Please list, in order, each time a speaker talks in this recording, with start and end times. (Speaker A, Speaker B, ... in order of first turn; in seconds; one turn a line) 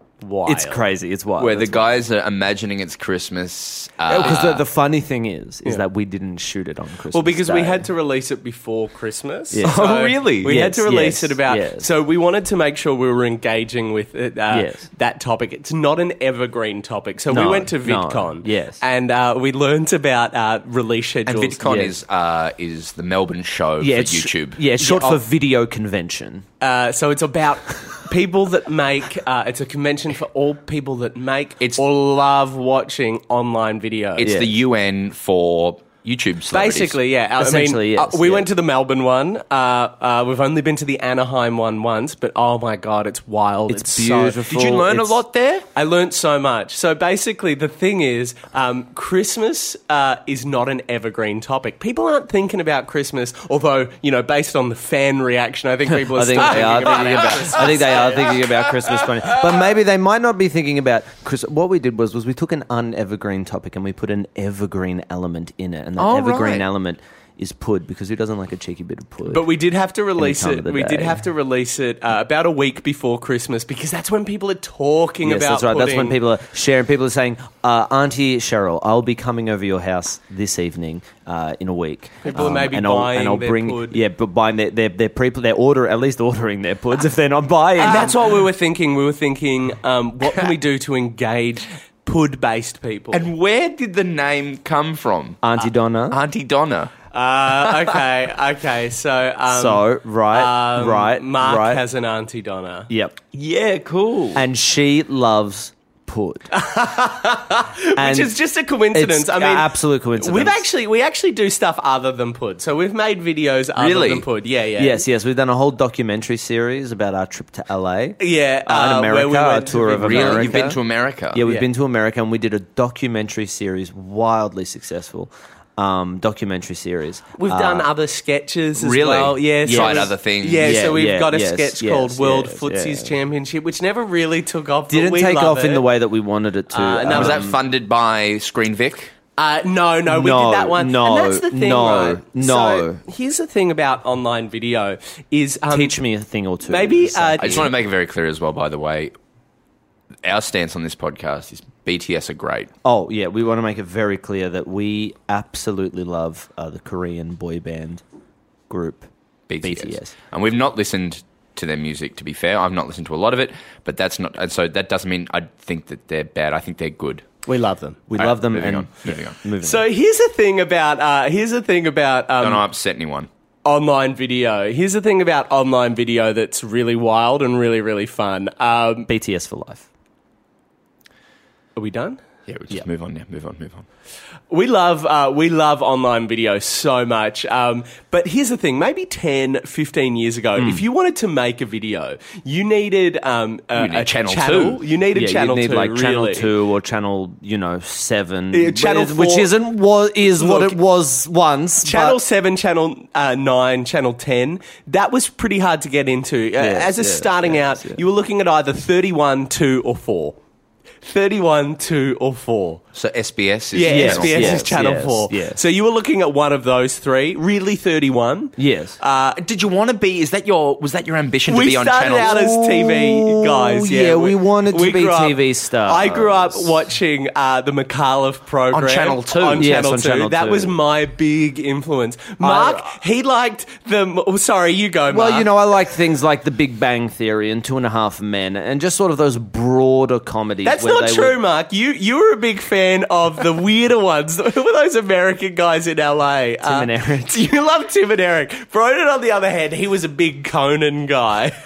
Speaker A: 0.2-0.8
Speaker B: 0.5-1.9
Speaker C: 1.4-4.6
Speaker B: 4.1-7.9
Speaker A: 7.1-21.6
Speaker B: 9.5-11.9
Speaker C: 9.6-10.5
Speaker B: 14.5-14.8
Speaker B: 17.3-18.8
Speaker C: 21.3-24.6
Speaker B: 21.6-22.0
Speaker B: 23.8-26.4
Speaker A: 24.8-25.2
Speaker A: 26.6-34.3
Speaker C: 34.2-37.0
Speaker B: 34.2-34.5
Speaker A: 36.5-44.4
Speaker B: 37.4-38.5
Speaker B: 43.7-45.2
Speaker C: 44.5-45.6
Speaker A: 45.7-58.3
Speaker B: 55.9-69.5
Speaker C: 57.0-57.6
Speaker C: 66.0-66.7
Speaker A: 69.3-76.2
Speaker B: 70.2-71.2
Speaker B: 75.2-88.3
Speaker A: 82.2-84.0
Speaker A: 87.8-93.3
Speaker C: 93.1-95.4
Speaker B: 95.4-96.2
Speaker C: 96.1-96.9
Speaker A: 97.1-102.9
Speaker B: 99.5-101.8
Speaker B: 102.9-103.2
Speaker C: 103.3-104.4
Speaker B: 104.3-106.5
Speaker A: 106.5-115.0
Speaker B: 108.0-108.3
Speaker B: 108.9-110.6
Speaker C: 113.8-114.3
Speaker B: 114.8-120.8
Speaker A: 118.2-120.6
Speaker C: 120.0-121.4
Speaker B: 121.3-127.9
Speaker A: 127.4-135.8
Speaker C: 128.8-130.8
Speaker B: 129.7-133.1
Speaker B: 134.9-137.6
Speaker A: 136.7-137.5
Speaker C: 137.1-139.1
Speaker A: 139.4-145.9
Speaker B: 140.1-143.0
Speaker B: 145.7-147.7
Speaker A: 146.7-147.7
Speaker C: 147.4-149.1
Speaker C: 150.2-152.7
Speaker B: 152.8-158.0
Speaker B: 158.7-159.1
Speaker C: 159.5-167.3
Speaker B: 159.6-160.1
Speaker A: 167.4-168.0
Speaker B: 168.1-169.9
Speaker C: 168.2-169.4
Speaker A: 169.6-172.6
Speaker C: 172.4-173.3
Speaker A: 173.6-179.1
Speaker B: 179.1-179.8
Speaker A: 181.8-182.2
Speaker C: 182.5-183.8
Speaker A: 184.5-196.5
Speaker C: 193.7-194.8
Speaker B: 195.1-202.2
Speaker A: 198.5-199.5
Speaker A: 200.2-200.8
Speaker A: 201.8-210.4
Speaker B: 206.6-208.0
Speaker A: 211.0-212.8
Speaker C: 212.9-214.7
Speaker A: 213.7-219.4
Speaker B: 213.8-215.6
Speaker B: 218.6-219.0
Speaker C: 219.3-222.4
Speaker A: 221.5-235.5
Speaker B: 222.2-226.7
Speaker C: 228.7-229.7
Speaker B: 229.5-230.8
Speaker B: 232.4-232.8
Speaker B: 235.1-241.4
Speaker A: 240.6-251.6
Speaker B: 246.6-247.3